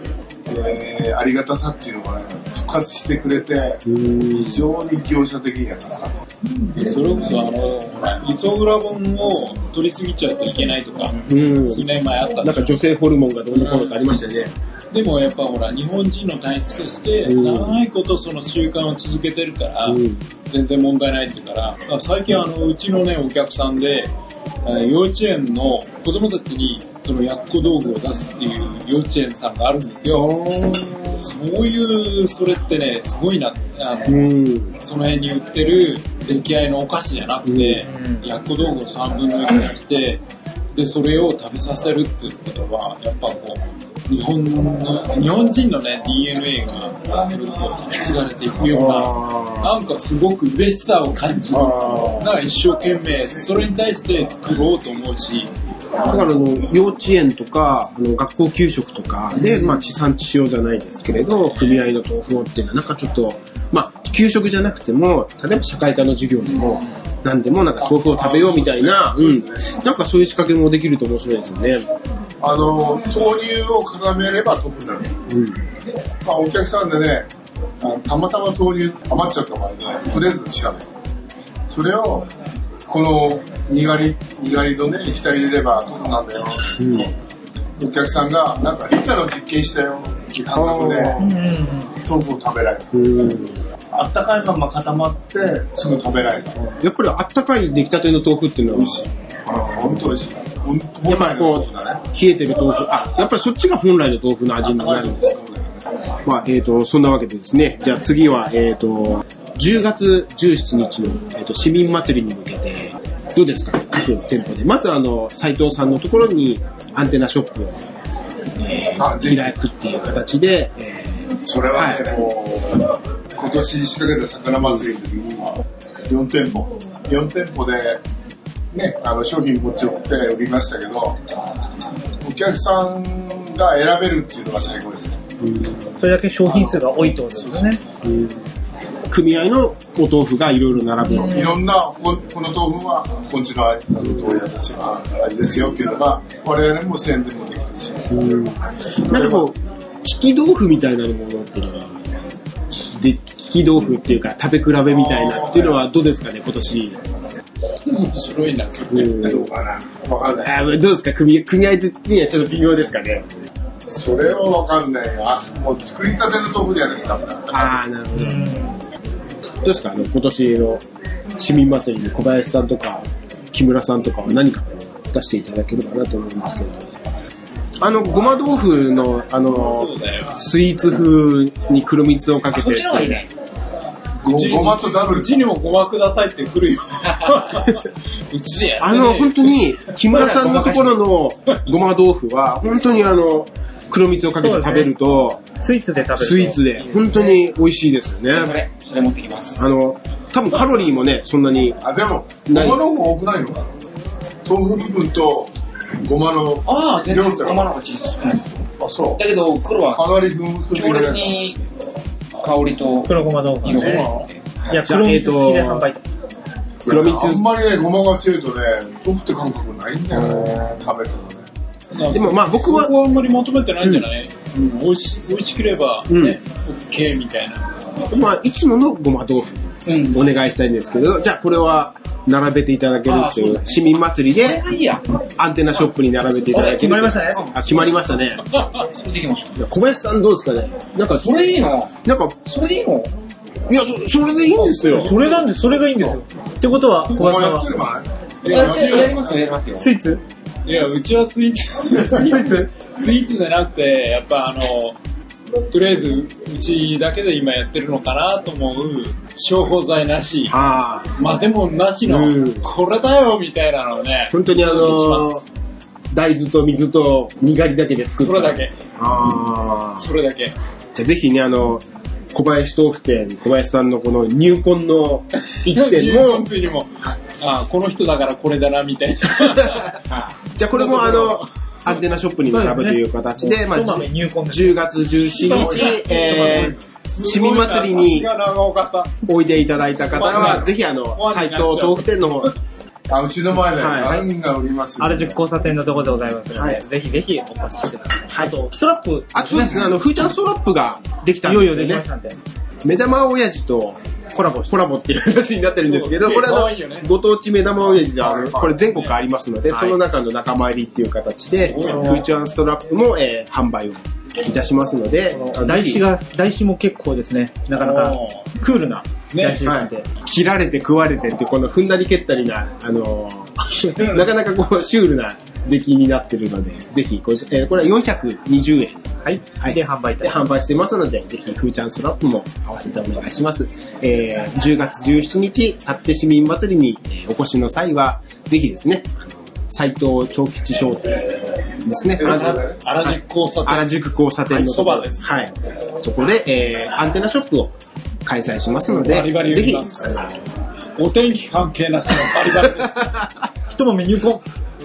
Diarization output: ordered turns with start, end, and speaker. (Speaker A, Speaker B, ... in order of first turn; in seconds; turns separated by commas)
Speaker A: 0.5-6.2, Speaker B: 3.8-4.6, Speaker C: 6.7-12.8, Speaker B: 11.2-14.5, Speaker C: 13.5-24.1, Speaker B: 17.2-17.8, Speaker B: 19.9-20.2, Speaker C: 24.6-30.3, Speaker B: 30.0-31.2, Speaker C: 31.2-34.2, Speaker B: 34.0-34.8, Speaker C: 34.8-40.2, Speaker B: 37.4-37.9, Speaker D: 37.9-38.2, Speaker C: 40.7-55.5, Speaker B: 48.7-49.8, Speaker B: 51.5-52.3, Speaker B: 56.0-71.8, Speaker C: 59.4-59.7, Speaker A: 67.7-69.7, Speaker A: 72.4-75.1, Speaker B: 75.3-75.6, Speaker A: 76.2-77.3, Speaker A: 77.8-80.9, Speaker A: 81.7-82.3, Speaker A: 82.8-87.1, Speaker B: 86.8-87.1, Speaker A: 87.8-91.2, Speaker B: 90.5-91.3, Speaker D: 91.2-91.9, Speaker A: 92.0-92.9, Speaker B: 92.9-93.6, Speaker A: 93.9-96.6, Speaker B: 96.8-99.9, Speaker A: 98.7-102.0, Speaker B: 101.1-105.3, Speaker A: 104.6-105.8, Speaker B: 106.2-117.8, Speaker B: 118.5-122.0, Speaker A: 118.9-119.5, Speaker A: 121.4-128.0, Speaker A: 128.7-131.2, Speaker A: 132.2-135.2, Speaker B: 135.4-136.0, Speaker D: 136.0-137.8, Speaker A: 136.4-137.8, Speaker B: 138.0-138.4, Speaker B: 139.1-141.5, Speaker D: 141.0-141.6, Speaker A: 141.2-148.1, Speaker B: 144.0-144.4, Speaker B: 148.1-152.0, Speaker A: 149.1-149.5, Speaker B: 152.7-157.0, Speaker A: 154.9-155.8, Speaker C: 157.8-159.2, Speaker B: 158.9-159.5, Speaker A: 159.2-160.6, Speaker B: 160.4-163.3, Speaker A: 163.9-167.8, Speaker B: 167.5-168.6, Speaker D: 168.1-168.8, Speaker B: 169.6-170.8, Speaker B: 171.3-176.9, Speaker B: 177.8-183.2, Speaker C: 179.6-180.4, Speaker E: 182.5-183.3, Speaker A: 184.2-185.3, Speaker C: 184.3-190.3, Speaker B: 188.8-195.4, Speaker E: 190.1-190.9, Speaker D: 194.4-194.9, Speaker D: 195.5-197.3, Speaker B: 196.1-198.6, Speaker E: 198.3-199.6, Speaker B: 199.6-201.8, Speaker A: 201.8-203.7, Speaker B: 202.5-202.8, Speaker A: 204.4-207.7, Speaker E: 206.6-210.1, Speaker A: 208.8-209.3, Speaker A: 209.9-211.4, Speaker E: 210.7-211.6, Speaker E: 212.3-214.8, Speaker D: 213.0-214.1, Speaker D: 214.7-216.0, Speaker B: 214.7-215.9, Speaker B: 216.8-217.4, Speaker A: 216.8-221.5, Speaker B: 220.1-220.6, Speaker C: 221.9-227.7, Speaker B: 222.1-222.9, Speaker B: 223.8-224.1, Speaker B: 226.1-226.4, Speaker B: 228.1-234.7, Speaker E: 229.9-230.2, Speaker E: 233.1-235.0, Speaker B: 235.4-238.4, Speaker E: 236.5-238.0, Speaker D: 236.5-237.4, Speaker E: 238.7-239.5, Speaker B: 239.6-242.3, Speaker E: 241.1-241.9, Speaker E: 242.4-243.1, Speaker B: 243.7-245.1, Speaker A: 244.9-245.4, Speaker D: 244.9-247.7, Speaker C: 244.9-245.5, Speaker A: 247.1-249.5, Speaker C: 248.4-249.1, Speaker E: 248.4-249.9, Speaker D: 249.8-250.2, Speaker C: 250.6-255.0, Speaker D: 252.1-252.7, Speaker C: 255.7-260.6, Speaker B: 260.5-261.1, Speaker C: 261.1-265.5, Speaker B: 262.0-262.7, Speaker B: 264.3-265.4, Speaker B: 266.1-270.1, Speaker C: 268.1-268.7, Speaker C: 269.9-270.5, Speaker B: 270.9-276.5, Speaker C: 275.5-282.0, Speaker B: 280.4-288.3, Speaker D: 282.5-286.0, Speaker C: 285.3-289.2, Speaker A: 285.4-286.8, Speaker B: 289.2-292.5, Speaker C: 289.9-292.5, Speaker A: 293.1-295.4, Speaker B: 293.7-294.2, Speaker D: 295.0-300.0, Speaker B: 296.5-296.8, Speaker B: 298.3-298.7, Speaker B: 299.3-302.1, Speaker D: 301.4-302.4, Speaker B: 302.8-316.0, Speaker C: 305.8-307.1, Speaker A: 308.2-308.6, Speaker C: 308.2-309.2, Speaker D: 309.7-310.0, Speaker C: 311.5-312.2, Speaker D: 311.7-312.3, Speaker D: 315.3-320.1, Speaker C: 317.7-318.5, Speaker C: 319.3-319.6, Speaker B: 319.6-329.1, Speaker C: 323.8-324.3, Speaker D: 329.2-330.4, Speaker B: 329.6-350.3, Speaker A: 342.2-342.8, Speaker C: 342.2-345.4, Speaker C: 348.9-350.4, Speaker C: 350.9-353.1, Speaker D: 353.6-354.5